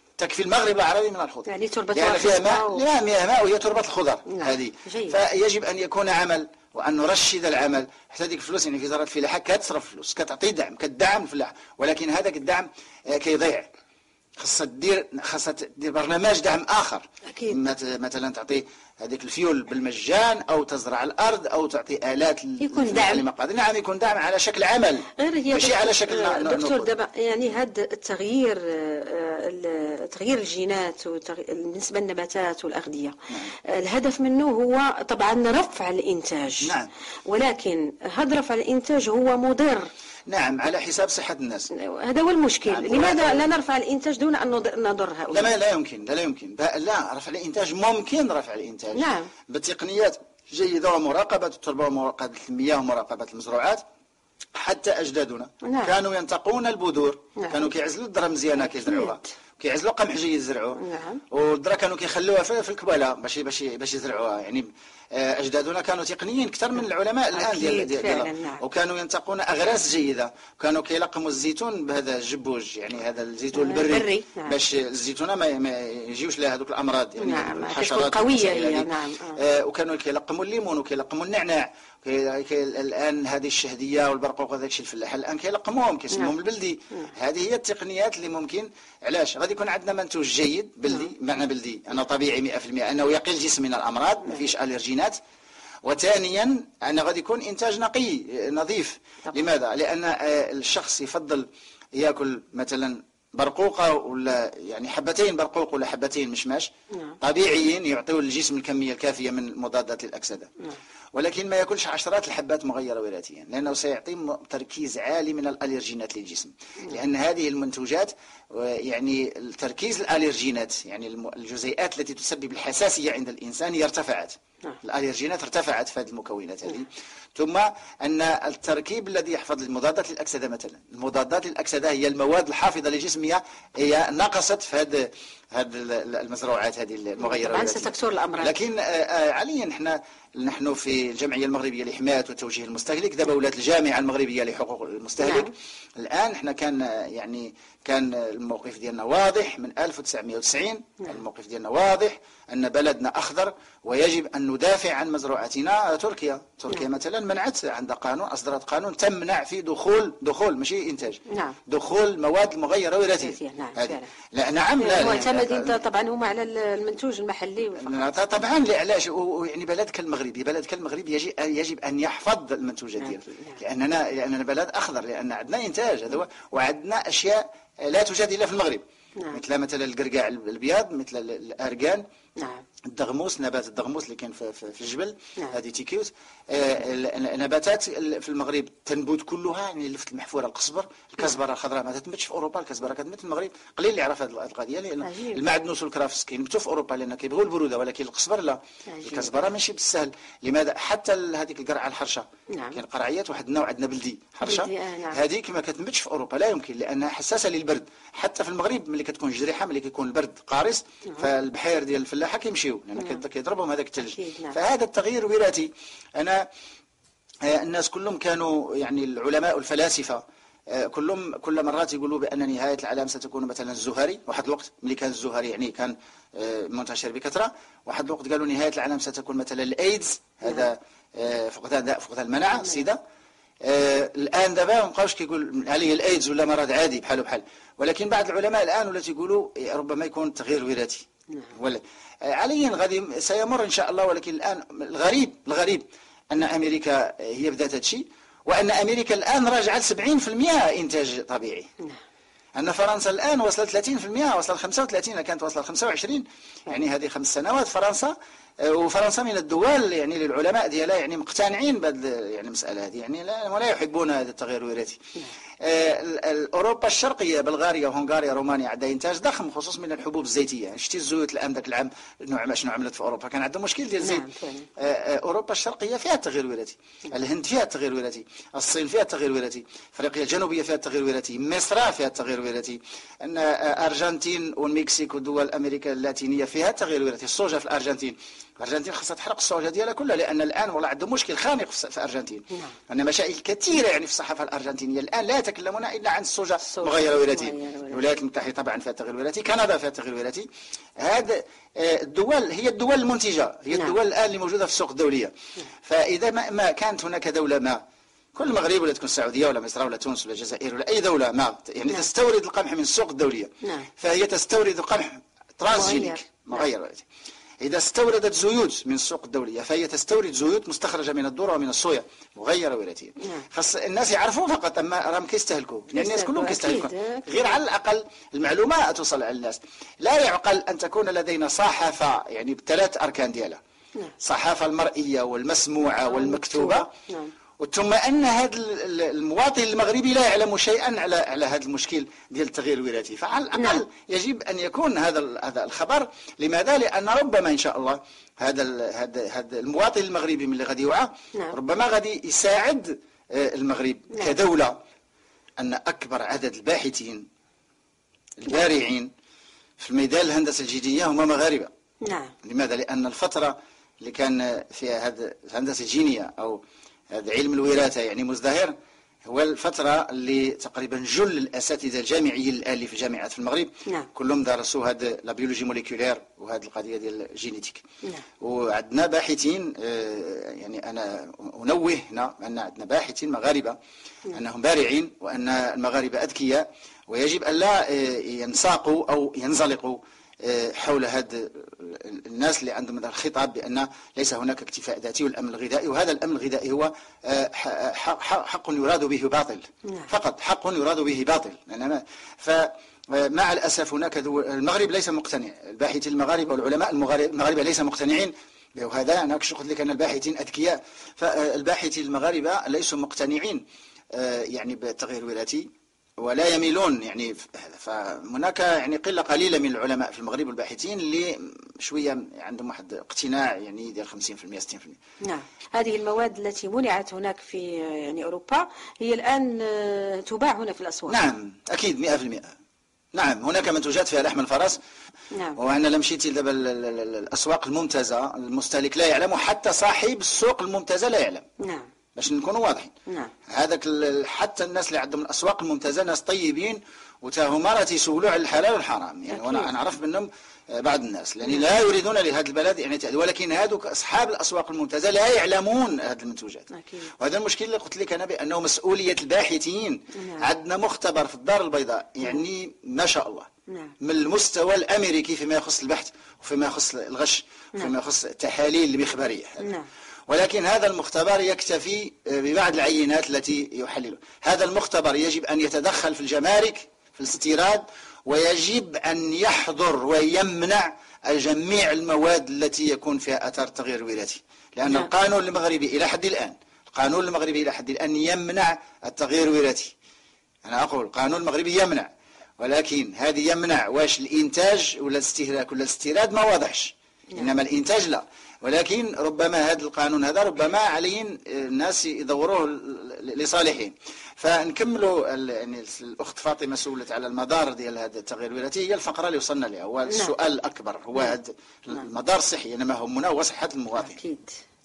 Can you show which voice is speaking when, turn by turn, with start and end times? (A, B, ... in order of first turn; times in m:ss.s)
0:00.2-0:13.7 A
0:01.5-0:02.8 B
0:04.3-0:05.2 B
0:14.4-0:26.9 A
0:17.3-0:17.6 B
0:22.6-0:23.2 B
0:25.2-0:36.7 B
0:36.6-0:36.9 A
0:37.3-0:39.9 B
0:40.3-0:41.7 A
0:41.8-0:45.5 B
0:42.7-0:43.4 A
0:45.3-0:53.8 A
0:49.0-0:49.3 B
0:54.6-1:35.2 A
0:55.6-0:55.9 B
0:58.6-0:59.2 B
1:00.8-1:01.2 B
1:07.3-1:08.6 B
1:13.5-1:14.6 B
1:17.2-1:19.4 B
1:35.8-1:50.5 A
1:51.1-2:45.8 A
2:17.2-2:18.5 B
2:25.2-2:25.5 B
2:41.3-2:41.6 B
2:43.2-2:44.1 B
2:44.8-2:48.1 B
2:47.8-3:02.0 A
2:53.0-2:53.6 B
3:02.4-3:02.6 B
3:02.9-3:36.5 A
3:15.0-3:15.4 B
3:18.9-3:19.3 B
3:22.5-3:22.8 B
3:24.4-3:25.2 B
3:34.0-3:34.6 B
3:37.4-3:53.0 A
3:53.6-4:11.7 A
4:12.6-4:25.0 A
4:25.6-4:34.3 A
4:34.0-4:34.7 B
4:34.8-5:00.5 A
4:56.6-4:58.0 B
5:01.0-5:07.8 A
5:08.4-5:17.0 A
5:13.6-5:13.9 B
5:15.7-5:16.4 B
5:17.6-5:33.6 A
5:23.2-5:23.5 B
5:25.9-5:27.6 B
5:34.2-5:36.9 A
5:36.1-5:37.3 B
5:37.6-5:54.8 A
5:43.5-5:43.8 B
5:55.6-5:57.3 A
5:58.4-5:59.1 A
5:59.8-6:01.7 A
6:02.0-6:02.3 B
6:02.4-6:17.8 A
6:18.4-6:23.8 A
6:24.3-6:55.7 A
6:56.2-7:05.0 A
7:05.2-7:11.2 B
7:11.1-7:12.5 A
7:13.2-7:14.8 A
7:15.6-7:21.4 A
7:21.6-7:21.9 B
7:22.2-7:22.9 A
7:23.1-7:23.3 B
7:23.5-7:43.5 A
7:29.3-7:29.7 B
7:36.7-7:37.1 B
7:40.2-7:40.5 B
7:44.0-7:49.7 A
7:49.6-7:49.9 B
7:50.3-8:09.9 A
8:10.6-8:34.2 A
8:34.0-8:34.5 B